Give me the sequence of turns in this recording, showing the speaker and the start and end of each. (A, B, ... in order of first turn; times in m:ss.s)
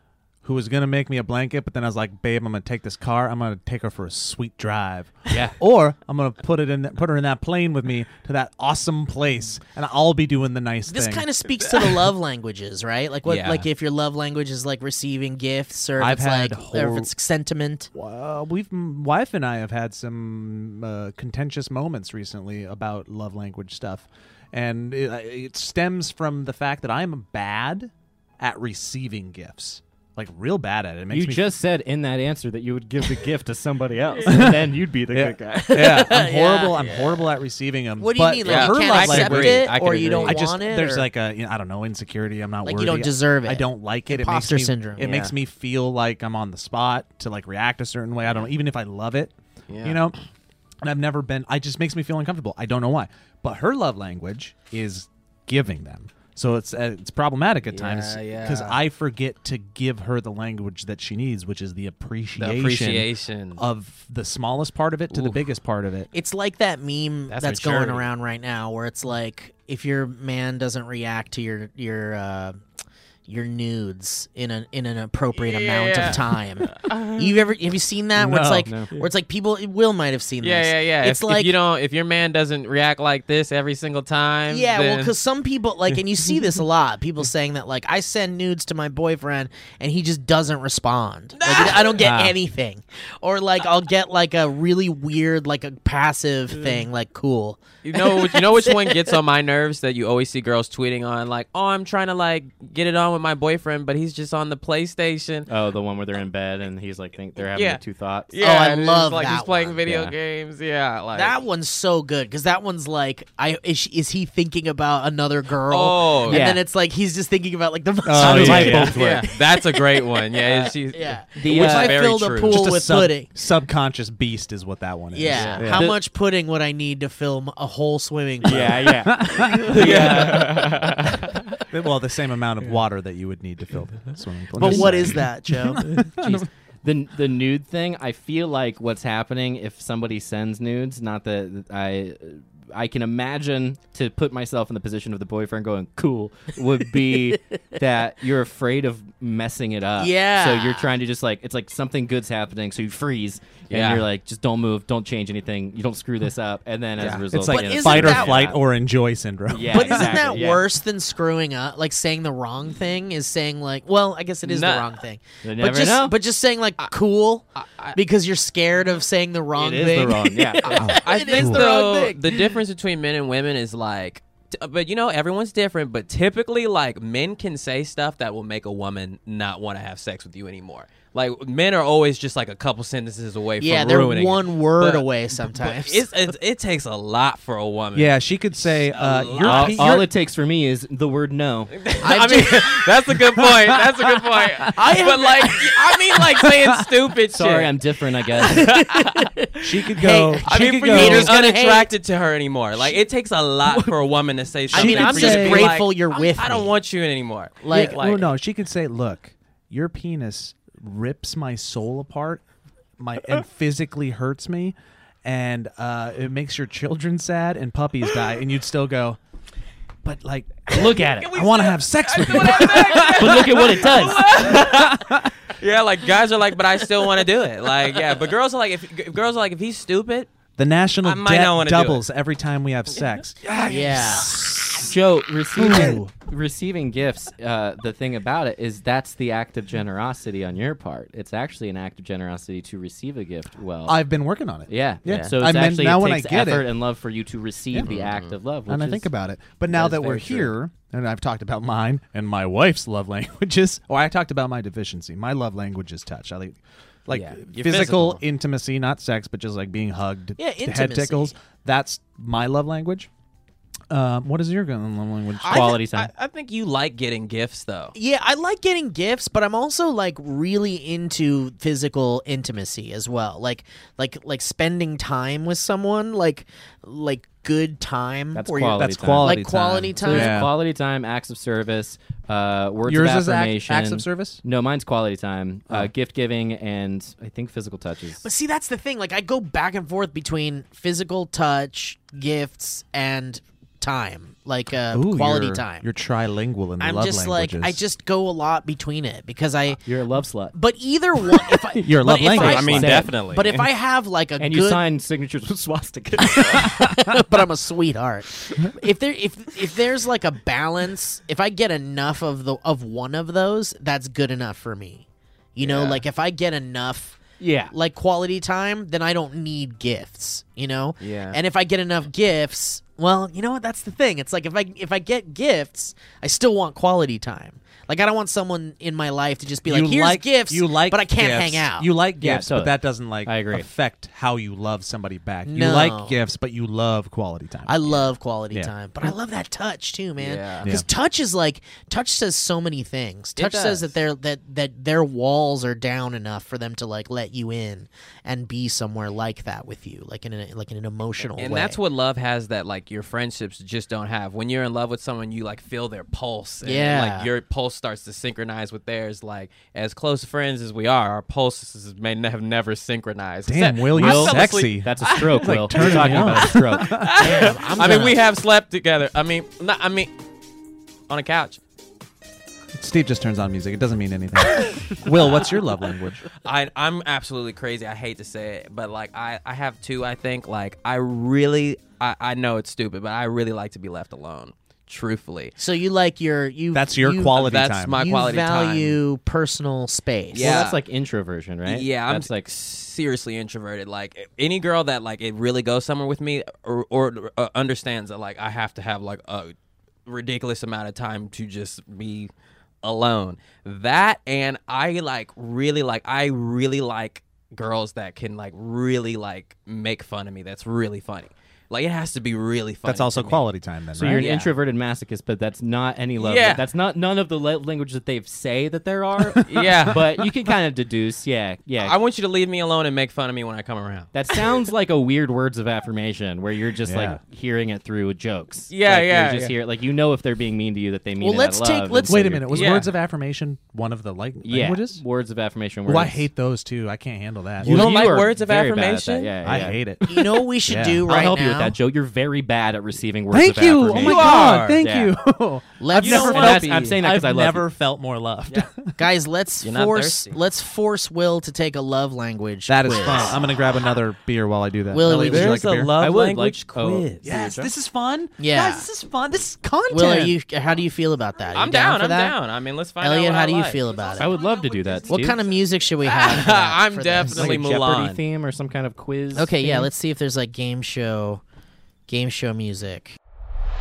0:00.4-0:11.3 A
0:05.3-0:05.5 B
0:10.9-0:17.9 C
0:13.2-0:13.6 D
0:16.0-0:17.1 A
0:17.9-0:31.4 A
0:31.1-0:36.0 B
0:34.2-0:49.3 A
0:35.6-0:36.8 C
0:36.8-0:37.1 D
0:38.0-0:41.1 C
0:38.4-0:40.4 D
0:42.6-0:45.1 C
0:45.0-0:45.3 D
0:49.7-0:50.1 D
0:49.8-0:50.1 A
0:50.8-1:06.1 A
0:57.7-0:58.8 D
1:02.4-1:03.6 D
1:05.1-1:05.4 D
1:06.1-1:12.6 C
1:07.3-1:08.1 D
1:13.3-1:21.5 C
1:15.4-1:17.4 D
1:18.2-1:18.7 A
1:20.4-1:25.1 D
1:24.5-1:39.1 C
1:31.4-1:32.1 D
1:32.0-1:32.4 A
1:37.8-1:45.5 D
1:45.5-1:48.3 B
1:47.4-1:51.4 D
1:48.4-1:49.8 C
1:49.8-1:50.1 B
1:51.1-2:03.3 C
1:55.7-1:56.5 D
1:56.3-1:56.6 B
1:58.0-1:59.2 A
1:58.2-1:59.0 B
1:58.9-2:02.6 D
2:01.4-2:02.0 B
2:01.5-2:01.7 A
2:02.3-2:05.9 A
2:05.1-2:09.1 C
2:05.3-2:05.6 D
2:05.3-2:06.0 B
2:08.4-2:11.6 B
2:08.8-2:10.8 A
2:09.7-2:11.3 D
2:11.7-2:16.4 A
2:14.5-2:15.8 C
2:14.6-2:15.1 B
2:15.9-2:38.6 B
2:30.0-2:30.9 C
2:33.7-2:34.0 D
2:37.0-2:37.2 D
2:37.3-2:40.2 A
2:37.5-2:38.5 C
2:39.5-2:40.6 B
2:39.7-2:52.5 C
2:44.4-2:45.0 D
2:45.4-2:46.1 B
2:47.6-2:48.0 D
2:49.6-2:51.0 B
2:50.6-3:08.2 D
2:50.8-2:51.6 A
3:03.6-3:06.0 C
3:07.9-3:10.1 A
3:08.9-3:10.0 D
3:09.4-3:11.8 B
3:11.7-3:17.7 D
3:12.0-3:12.8 C
3:13.3-3:14.4 A
3:14.7-3:15.8 C
3:16.3-3:16.8 A
3:17.3-3:18.7 B
3:18.4-3:19.3 D
3:18.4-3:21.9 C
3:19.6-3:21.3 A
3:20.4-3:28.3 D
3:24.7-3:25.7 A
3:24.7-3:26.7 C
3:27.6-3:28.0 C
3:27.7-3:32.4 A
3:33.0-3:39.2 A
3:40.0-3:43.5 A
3:40.7-3:41.3 B
3:41.0-3:50.3 D
3:42.4-3:44.2 B
3:44.3-3:45.3 A
3:50.6-3:54.9 A
3:51.0-3:52.0 D
3:53.6-3:54.4 C
3:54.7-4:04.0 B
3:55.6-3:56.1 A
4:03.8-4:06.7 A
4:04.7-4:09.1 B
4:05.0-4:05.3 D
4:07.8-4:08.3 D
4:08.7-4:23.1 A
4:09.7-4:10.5 D
4:17.1-4:18.2 D
4:20.4-4:21.4 C
4:23.9-4:25.7 A
4:25.5-4:26.1 B
4:25.5-4:25.8 C
4:25.6-4:27.9 D
4:27.9-4:40.4 C
4:38.3-4:39.4 B
4:38.8-4:40.5 A
4:40.0-4:48.2 B
4:42.8-4:44.4 A
4:48.2-4:55.8 C
4:54.9-4:57.8 A
4:56.8-4:59.8 C
4:59.8-5:00.5 B
5:00.5-5:04.8 C
5:01.7-5:03.0 A
5:02.3-5:03.1 B
5:02.3-5:03.6 D
5:04.4-5:06.8 B
5:06.2-5:17.2 C
5:15.6-5:16.0 D
5:17.4-5:17.7 B
5:17.7-5:31.9 C
5:21.0-5:21.4 D
5:29.6-5:37.8 A
5:32.2-5:33.7 B
5:35.4-5:36.2 C
5:37.7-5:51.8 C
5:40.2-5:40.7 D
5:43.4-5:43.9 D
5:51.4-6:10.1 D
5:56.6-5:57.3 C
6:03.4-6:07.2 A
6:03.9-6:07.1 B
6:07.2-6:08.2 C
6:11.1-6:11.6 D
6:12.7-6:16.3 A
6:16.4-6:25.5 D
6:25.6-6:30.7 C
6:26.7-6:28.0 A
6:27.3-6:29.0 D
6:30.3-6:30.8 D
6:30.4-6:32.5 B
6:31.6-6:39.5 D
6:40.0-6:42.3 D
6:42.8-6:53.4 D
6:52.8-6:54.3 A
6:53.9-7:02.0 B
6:54.1-6:54.5 D
6:56.2-6:56.6 D
6:59.4-7:00.2 D
7:01.8-7:04.6 D
7:04.1-7:12.8 B
7:06.8-7:07.2 A
7:08.7-7:09.6 D
7:11.2-7:12.4 C
7:12.1-7:15.0 A
7:12.5-7:12.9 D
7:14.4-7:16.3 B
7:15.8-7:18.0 A
7:17.6-7:19.8 B
7:17.6-7:19.6 D
7:19.4-7:21.1 A
7:20.1-7:21.8 C
7:21.0-7:25.2 B
7:23.3-7:28.9 A
7:23.9-7:24.8 D
7:25.8-7:26.7 C
7:26.0-7:27.0 D
7:26.0-7:27.6 B
7:29.0-7:33.4 C
7:29.6-7:30.4 D
7:32.7-7:35.9 A
7:34.9-7:35.6 C
7:35.0-7:37.2 D
7:36.0-7:37.7 B
7:37.2-7:40.4 A
7:38.4-7:38.8 C
7:39.9-7:42.4 C
7:41.5-7:43.8 D
7:43.0-7:44.3 C
7:44.2-7:45.4 B
7:45.1-7:47.6 C
7:46.0-7:48.2 D
7:47.2-7:49.9 B
7:49.3-7:51.4 C
7:52.1-7:53.2 C